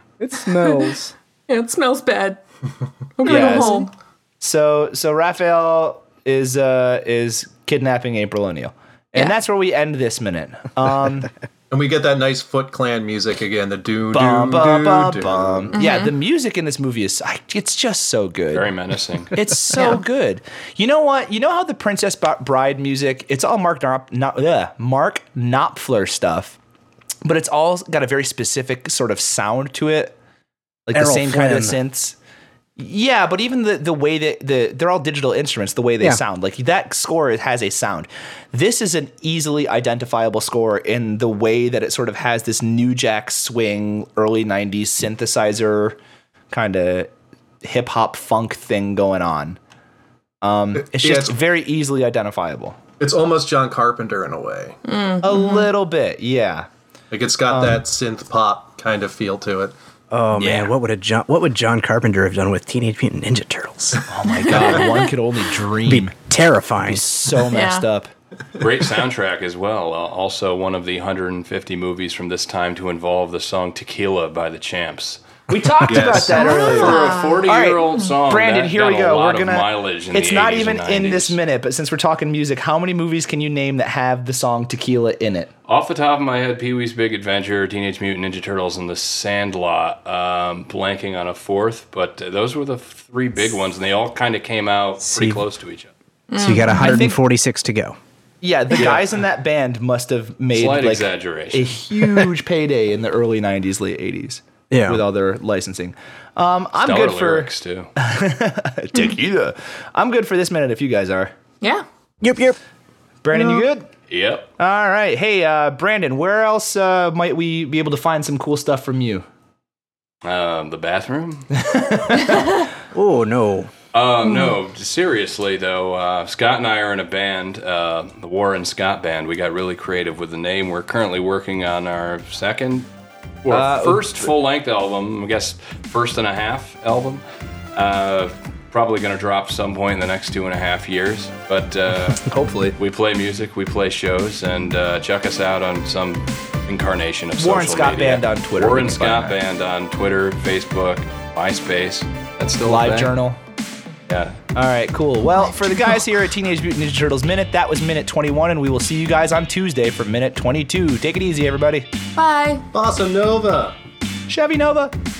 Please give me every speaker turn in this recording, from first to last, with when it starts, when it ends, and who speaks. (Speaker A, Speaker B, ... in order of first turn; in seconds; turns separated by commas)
Speaker A: 0.2-1.1, Speaker B: 1.5-2.4, Speaker B: 3.1-3.9, Speaker C: 3.2-3.8, Speaker C: 4.4-11.3, Speaker D: 11.7-15.7, Speaker C: 14.1-18.7, Speaker B: 15.7-16.1, Speaker E: 18.5-19.4, Speaker C: 19.3-26.6, Speaker B: 19.7-20.0, Speaker C: 27.2-30.1, Speaker C: 30.9-32.1, Speaker A: 30.9-31.8, Speaker C: 32.8-46.0, Speaker C: 46.5-49.6, Speaker C: 50.4-52.8, Speaker D: 50.9-51.3, Speaker D: 53.0-54.8, Speaker B: 54.8-55.7, Speaker C: 55.2-56.7, Speaker D: 57.1-59.7, Speaker C: 57.5-57.8, Speaker A: 60.1-64.0, Speaker C: 60.4-60.7, Speaker C: 64.0-66.2, Speaker B: 64.4-65.0, Speaker A: 65.8-67.0, Speaker C: 66.8-68.1, Speaker B: 67.5-67.9, Speaker E: 68.6-81.4, Speaker C: 75.5-85.5, Speaker D: 75.9-77.0, Speaker B: 76.3-77.4, Speaker E: 85.7-95.9, Speaker A: 95.0-95.4, Speaker B: 96.3-97.0, Speaker A: 96.4-98.0, Speaker C: 96.8-97.2, Speaker C: 98.4-111.3, Speaker E: 100.5-101.7, Speaker A: 104.7-105.0, Speaker E: 106.7-107.9, Speaker A: 112.2-112.6, Speaker C: 113.2-113.9, Speaker A: 113.3-113.6, Speaker E: 114.1-114.5, Speaker C: 114.6-119.2, Speaker E: 120.2-121.5, Speaker C: 121.6-122.4, Speaker B: 122.1-122.6, Speaker A: 122.9-123.7, Speaker E: 123.9-132.9, Speaker B: 124.2-124.6, Speaker E: 133.4-137.2, Speaker C: 133.5-134.3, Speaker E: 137.7-153.1, Speaker C: 142.2-142.8, Speaker C: 147.4-149.3, Speaker C: 152.6-153.4, Speaker E: 154.1-154.4, Speaker C: 154.5-161.9, Speaker B: 162.1-162.7, Speaker D: 162.7-163.8, Speaker C: 164.3-164.9